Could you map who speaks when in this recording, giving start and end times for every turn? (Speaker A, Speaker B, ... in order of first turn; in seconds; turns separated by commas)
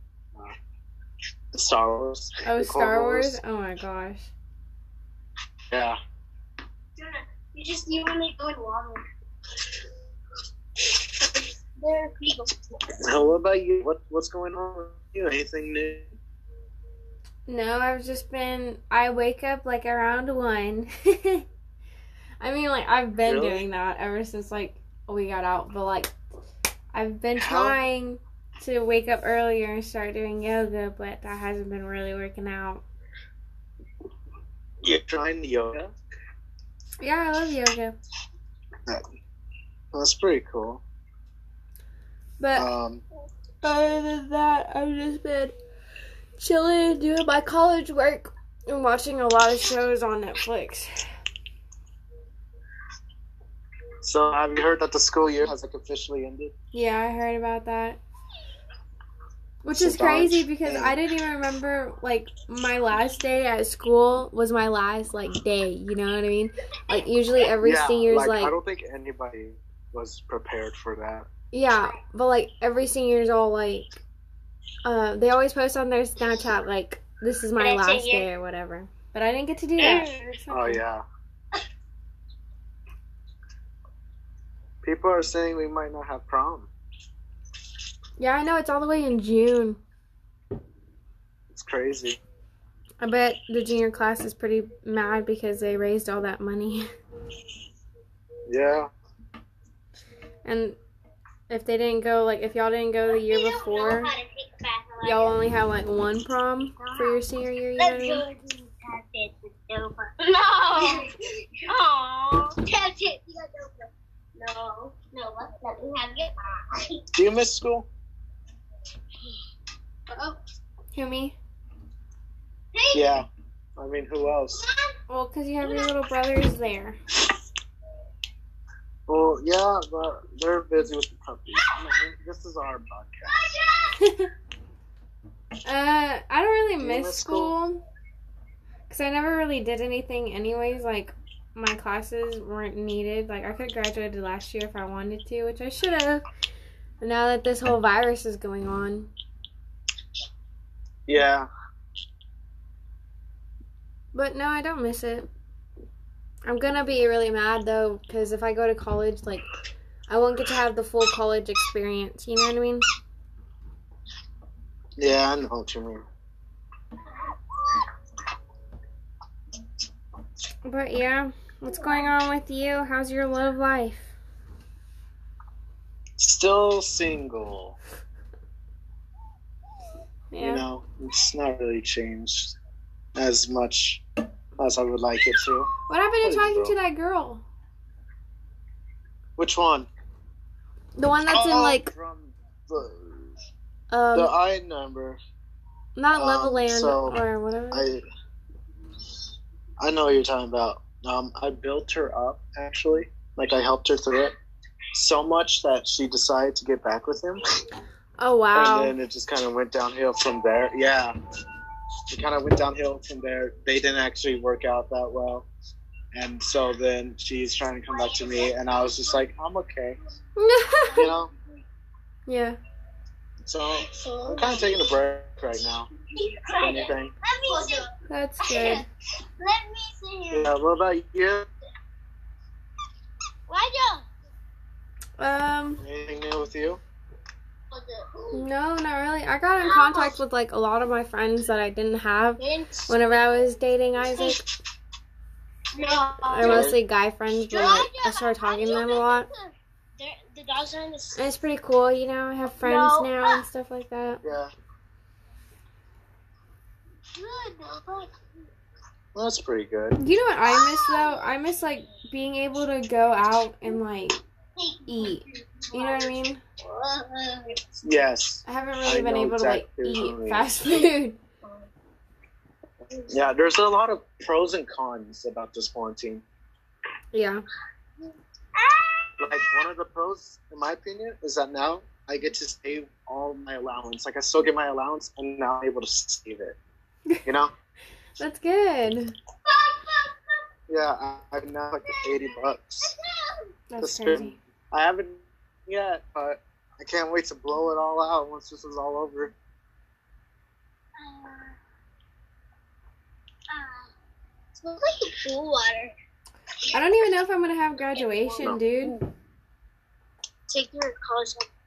Speaker A: 1.5-3.4, Speaker B: 2.4-4.3, Speaker A: 5.7-6.0, Speaker C: 7.0-9.0, Speaker C: 11.2-12.5, Speaker A: 13.0-16.1, Speaker B: 17.5-21.4, Speaker B: 22.4-26.1, Speaker A: 23.2-23.6, Speaker B: 26.9-32.8, Speaker A: 27.4-27.8, Speaker A: 34.8-35.9, Speaker B: 37.0-38.0, Speaker A: 39.9-40.8, Speaker B: 42.4-42.7, Speaker A: 42.5-43.0, Speaker B: 43.6-45.5, Speaker B: 46.4-51.0, Speaker A: 54.0-56.5, Speaker B: 56.7-58.0, Speaker B: 59.6-68.6, Speaker A: 59.7-61.0, Speaker A: 67.6-71.3, Speaker B: 71.5-74.0, Speaker B: 74.8-80.8, Speaker C: 77.6-78.3, Speaker C: 79.8-80.3, Speaker A: 80.5-81.0, Speaker A: 84.8-86.7, Speaker B: 88.2-89.8, Speaker A: 91.5-92.2, Speaker B: 93.0-96.8, Speaker A: 98.5-98.9, Speaker B: 100.4-100.8, Speaker B: 101.5-104.1, Speaker C: 103.1-105.4, Speaker B: 105.0-108.2, Speaker C: 106.8-107.2, Speaker C: 107.8-111.1, Speaker C: 111.6-116.9, Speaker A: 117.1-117.9, Speaker C: 120.1-120.4, Speaker B: 120.9-121.3, Speaker C: 122.7-123.1, Speaker A: 122.9-123.2, Speaker A: 123.8-124.6, Speaker C: 124.6-124.9, Speaker B: 125.1-127.0, Speaker A: 129.1-133.4, Speaker C: 133.4-133.9, Speaker B: 133.9-134.3, Speaker B: 135.6-137.8, Speaker A: 136.8-137.5, Speaker B: 138.9-146.2, Speaker B: 147.0-149.1, Speaker A: 151.1-151.5, Speaker B: 154.1-155.3, Speaker B: 156.4-159.5, Speaker B: 160.1-162.9, Speaker A: 165.0-166.0, Speaker B: 170.6-174.1, Speaker A: 176.2-177.8, Speaker B: 180.3-180.6, Speaker A: 180.4-182.5, Speaker A: 183.2-184.0, Speaker A: 184.6-185.7, Speaker B: 185.9-187.4, Speaker A: 186.2-186.7, Speaker A: 189.4-189.9, Speaker B: 190.9-191.9, Speaker A: 191.3-193.3, Speaker B: 193.9-194.3, Speaker A: 194.1-195.2, Speaker B: 196.0-197.8, Speaker A: 196.1-197.2, Speaker A: 197.7-198.0, Speaker A: 199.8-204.3, Speaker A: 204.9-207.4, Speaker B: 208.2-208.9, Speaker A: 208.5-211.2, Speaker A: 212.1-215.5, Speaker A: 216.1-220.0, Speaker C: 217.9-219.1, Speaker B: 220.4-221.1, Speaker C: 220.9-221.2, Speaker A: 220.9-221.3, Speaker B: 222.3-222.6, Speaker A: 223.4-225.9, Speaker C: 223.8-224.8, Speaker C: 226.2-227.9, Speaker A: 226.6-227.1, Speaker B: 228.1-228.8, Speaker C: 228.4-228.8, Speaker C: 229.4-230.5, Speaker A: 230.3-231.5, Speaker C: 233.5-234.1, Speaker B: 235.2-235.8, Speaker A: 235.8-236.8, Speaker C: 237.7-238.4, Speaker B: 238.3-244.4, Speaker C: 239.6-240.2, Speaker C: 242.4-242.9, Speaker C: 245.7-246.7, Speaker B: 246.3-249.3, Speaker A: 246.4-246.8, Speaker C: 247.5-251.2, Speaker B: 251.2-254.2, Speaker C: 252.6-253.4, Speaker A: 254.2-254.5, Speaker C: 257.1-258.1, Speaker A: 259.1-260.0, Speaker B: 260.0-264.2, Speaker C: 260.4-261.2, Speaker C: 264.6-267.6, Speaker B: 264.9-266.4, Speaker A: 267.8-270.5, Speaker B: 268.4-271.2, Speaker A: 273.1-276.2, Speaker B: 277.1-277.4, Speaker C: 278.6-279.4, Speaker A: 279.2-286.6, Speaker A: 287.2-287.5, Speaker B: 288.2-289.1, Speaker C: 289.5-290.1, Speaker A: 290.7-292.9, Speaker C: 291.9-293.4, Speaker B: 293.7-294.4, Speaker A: 293.8-299.3, Speaker C: 301.0-301.5, Speaker C: 303.5-303.9, Speaker C: 304.6-305.9, Speaker B: 306.7-308.9, Speaker C: 310.5-311.5